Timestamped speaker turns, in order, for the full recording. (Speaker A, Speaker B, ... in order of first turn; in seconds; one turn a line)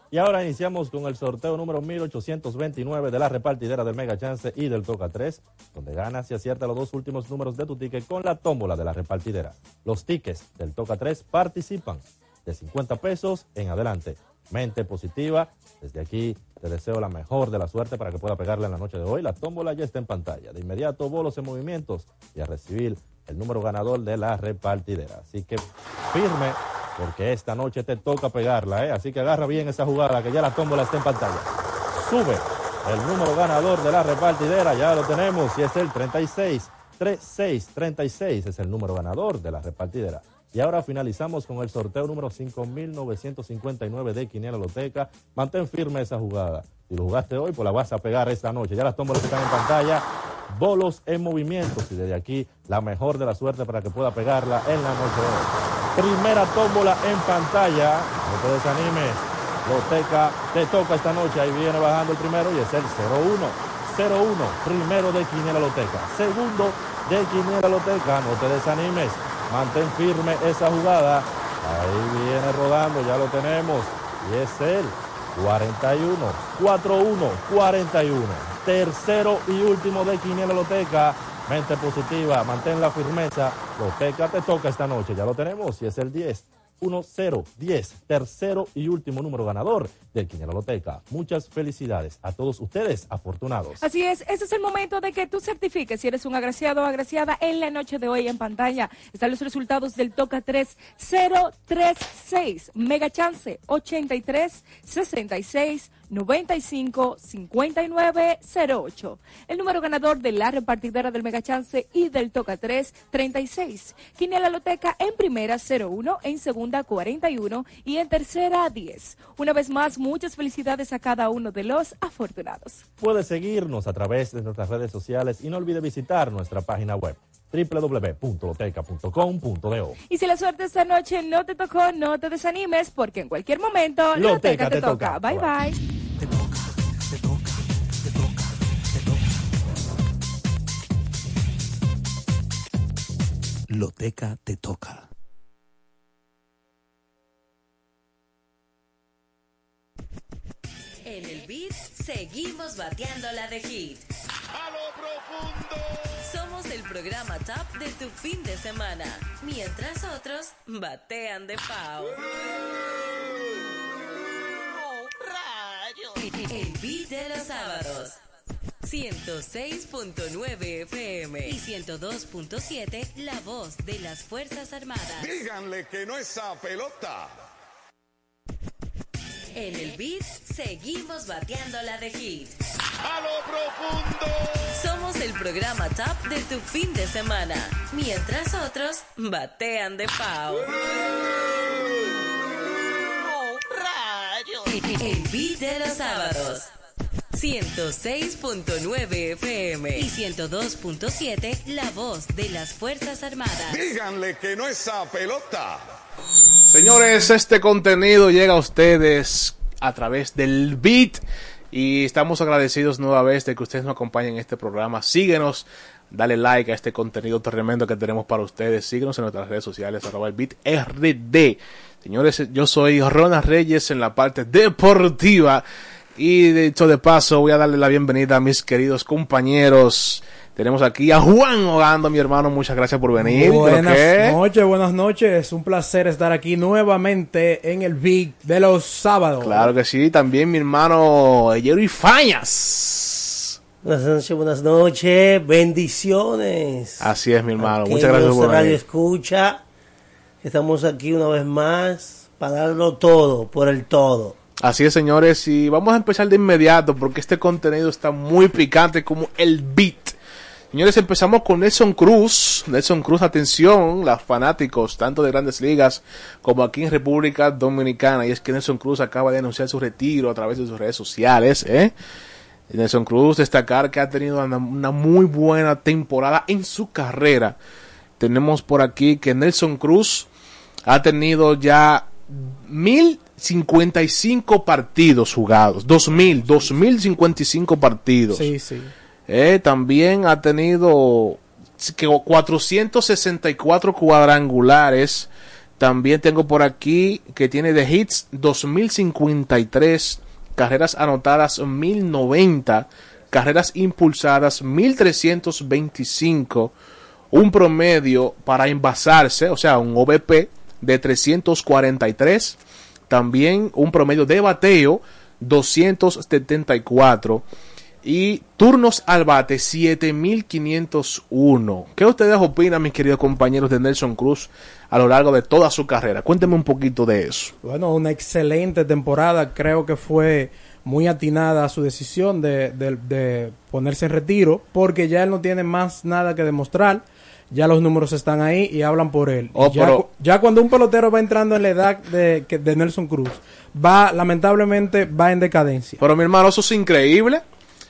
Speaker A: 0.1-93.8
Speaker B: 93.8-122.8
Speaker A: 123.0-130.0
Speaker B: 130.1-135.8
Speaker A: 134.1-135.5
Speaker C: 136.2-139.3
Speaker C: 143.7-145.1
Speaker D: 151.1-154.1
Speaker E: 154.5-155.9
Speaker D: 156.2-162.2
Speaker D: 166.2-168.2
Speaker D: 168.8-175.3
Speaker E: 175.2-177.3
Speaker D: 179.5-182.6
Speaker E: 183.0-184.5
Speaker D: 184.7-190.8
Speaker D: 194.7-196.7
Speaker D: 197.3-203.8
Speaker E: 203.7-205.8
Speaker F: 206.7-225.7
Speaker F: 226.2-234.4
Speaker G: 233.2-239.7
Speaker F: 239.4-243.5
Speaker H: 243.8-249.6
Speaker F: 247.0-248.8
Speaker H: 250.4-254.4
Speaker F: 254.6-260.1
Speaker F: 260.7-271.9
Speaker F: 272.7-277.6
Speaker F: 278.2-280.3
Speaker F: 280.9-288.5
Speaker G: 288.3-288.9
Speaker F: 289.3-306.7
Speaker F: 307.3-312.6
Speaker F: 313.1-317.4
Speaker F: 318.0-327.5
Speaker G: 327.6-346.0
Speaker F: 339.5-340.1
Speaker F: 346.0-347.4